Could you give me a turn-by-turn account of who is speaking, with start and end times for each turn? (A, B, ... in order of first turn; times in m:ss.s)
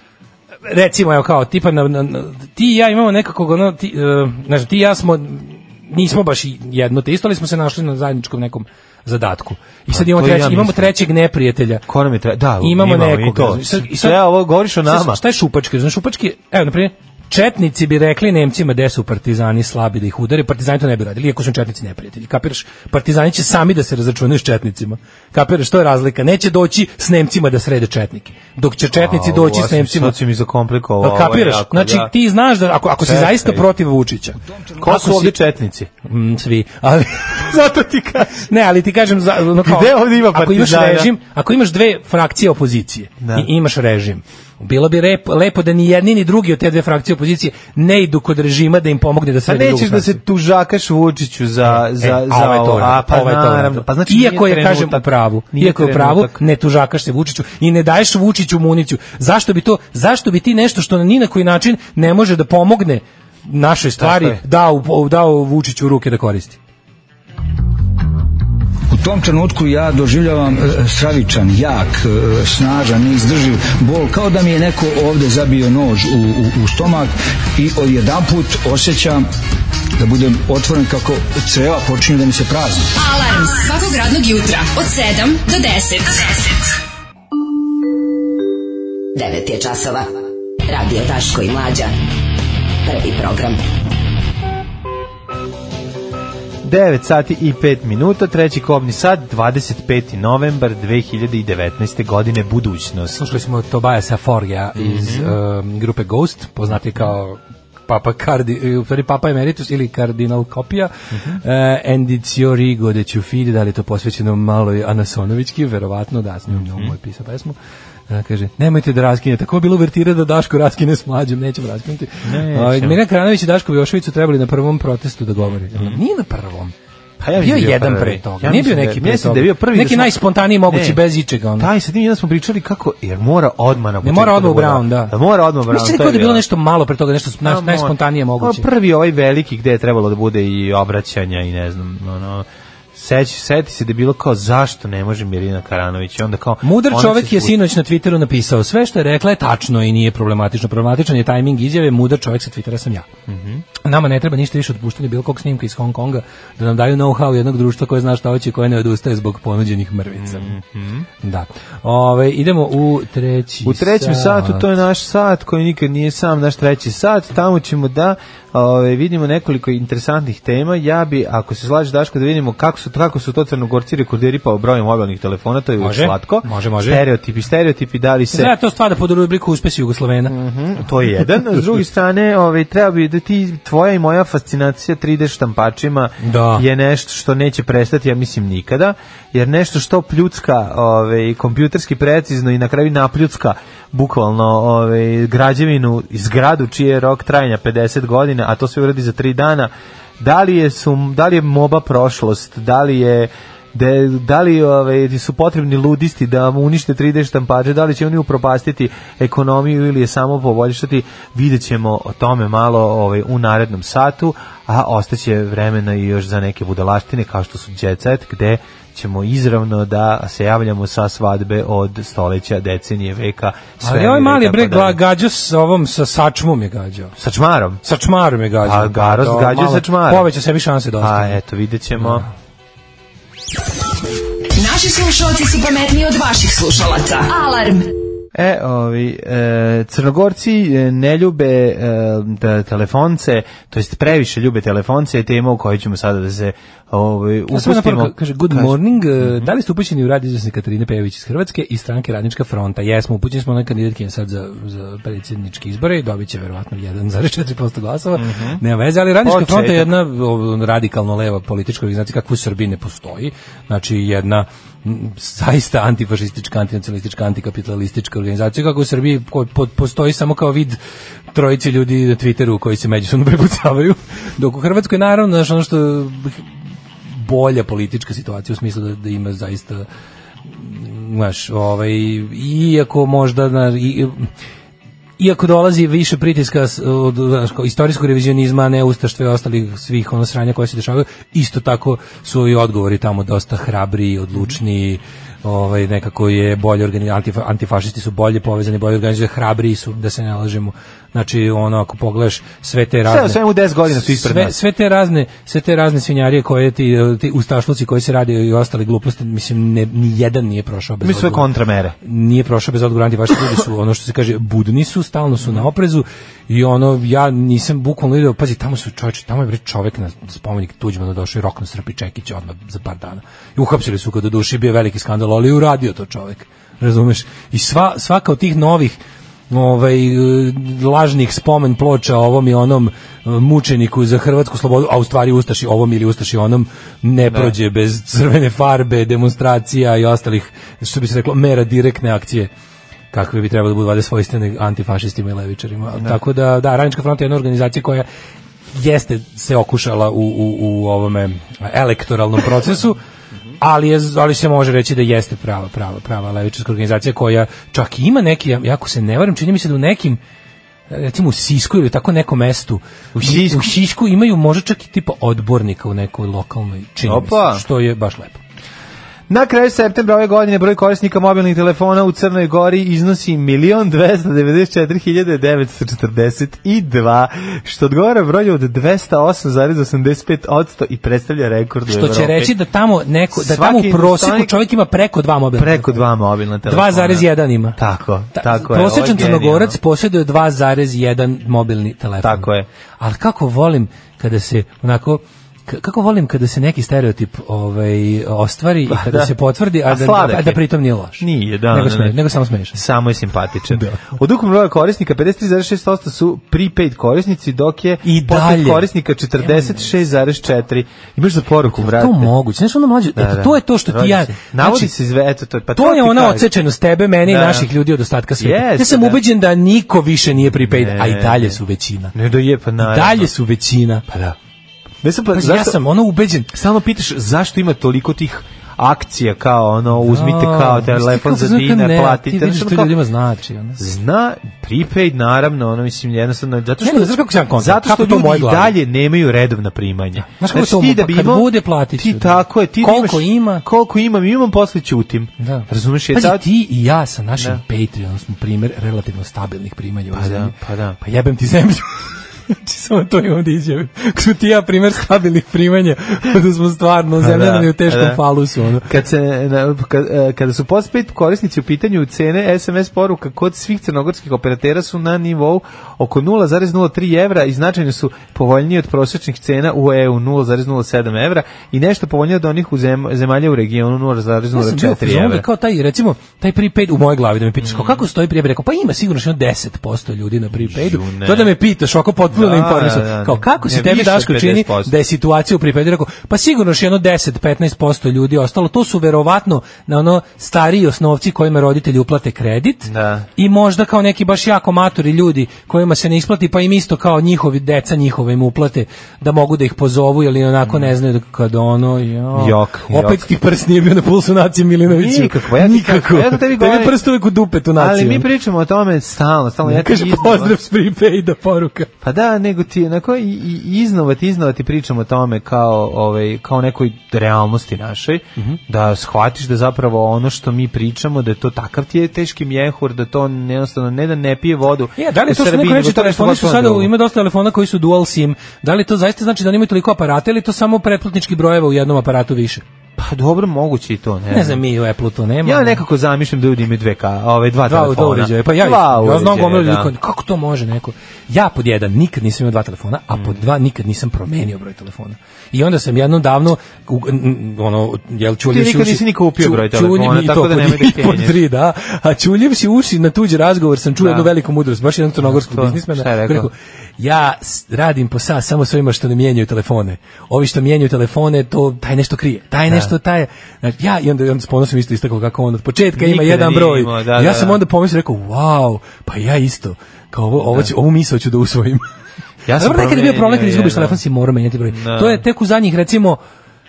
0:00.6-0:11.8 A
0:09.9-0:10.9 B
0:11.9-0:15.2 B
0:12.6-0:14.3 A
0:14.8-0:30.2 A
0:28.9-0:32.1 B
0:31.0-0:35.4 A
0:33.0-0:33.6 B
0:34.8-0:35.9 B
0:36.0-0:50.2 A
0:37.5-0:38.3 B
0:39.6-0:41.1 B
0:43.2-0:43.5 B
0:49.4-0:56.4 B
0:51.7-1:06.6 A
1:04.0-1:04.4 B
1:08.9-1:19.2 C
1:20.0-1:22.9 C
1:23.0-1:26.7 D
1:29.1-1:30.1 E
1:30.7-1:31.9 E
1:32.8-1:33.6 E
1:36.6-1:43.2 B
1:43.1-1:50.9 A
1:44.8-1:45.3 B
1:51.1-1:51.4 B
1:51.4-1:57.6 A
1:56.5-1:56.9 B
1:58.1-2:06.7 A
2:02.2-2:03.0 B
2:05.7-2:06.0 B
2:07.2-2:11.0 B
2:07.4-2:11.7 A
2:11.6-2:16.4 B
2:14.0-2:15.1 A
2:15.7-2:18.7 A
2:17.4-2:27.6 B
2:26.6-2:33.1 A
2:33.3-2:33.6 B
2:33.8-2:40.5 A
2:40.2-2:41.1 B
2:41.2-2:44.6 A
2:43.6-2:58.5 B
2:55.8-2:57.0 A
2:58.3-3:00.4 A
3:00.3-3:45.0 B
3:06.2-3:06.6 A
3:43.8-3:47.1 A
3:47.2-3:47.8 B
3:47.8-3:51.4 A
3:48.6-3:50.3 B
3:51.0-3:52.2 B
3:52.0-3:52.3 A
3:54.5-3:57.9 D
3:58.3-4:09.5 B
4:07.5-4:30.8 A
4:18.2-4:18.6 B
4:19.2-4:19.9 B
4:31.3-4:36.4 A
4:37.1-4:39.8 A
4:40.5-4:44.3 A
4:45.2-5:03.4 A
5:03.0-5:04.6 B
5:03.9-5:11.5 A
5:11.0-5:11.9 B
5:12.0-5:29.0 A
5:29.5-5:42.5 A
5:37.3-5:37.5 B
5:43.1-5:48.0 A
5:48.7-5:53.0 A
5:53.6-6:00.2 A
6:00.9-6:08.4 A
6:03.1-6:03.7 B
6:07.0-6:07.6 B
6:09.3-6:22.5 B
6:21.9-6:26.0 A
6:23.3-6:24.5 B
6:25.6-6:29.8 B
6:26.6-6:27.8 A
6:28.3-6:42.8 A
6:32.2-6:32.7 B
6:38.9-6:39.3 B
6:39.8-6:40.6 B
6:41.2-6:42.2 B
6:42.7-6:52.3 B
6:43.7-6:44.2 A
6:48.0-6:48.9 A
6:49.4-6:49.9 A
6:51.8-6:54.9 A
6:53.2-6:56.5 B
6:55.7-7:02.1 A
6:57.2-6:57.7 B
6:58.4-6:59.2 B
7:00.4-7:01.6 B
7:02.1-7:03.3 B
7:02.8-7:04.1 A
7:04.1-7:04.3 B
7:05.0-7:05.8 B
7:05.3-7:06.5 A
7:06.5-7:13.0 B
7:10.0-7:13.8 A
7:13.8-7:26.4 B
7:16.8-7:18.7 A
7:20.2-7:23.6 A
7:25.4-7:38.9 A
7:30.1-7:31.0 B
7:37.2-7:38.2 B
7:38.8-7:55.4 B
7:54.5-8:28.3 A
7:57.6-7:58.0 B
8:00.5-8:01.5 B
8:02.3-8:04.9 B
8:12.8-8:13.3 B
8:20.6-8:20.9 B
8:22.3-8:23.2 B
8:24.8-8:27.0 B
8:27.8-8:30.5 B
8:29.6-8:31.9 A
8:32.0-8:46.9 B
8:45.0-8:52.6 A
8:53.0-8:54.6 B
8:54.3-8:55.8 A
8:55.4-8:59.9 B
8:57.6-9:31.8 A
9:03.1-9:03.4 B
9:08.5-9:11.4 B
9:14.0-9:14.3 B
9:15.2-9:16.5 B
9:22.7-9:22.9 B
9:25.9-9:27.6 B
9:32.4-9:34.0 B
9:32.6-9:36.2 A
9:34.7-9:35.2 B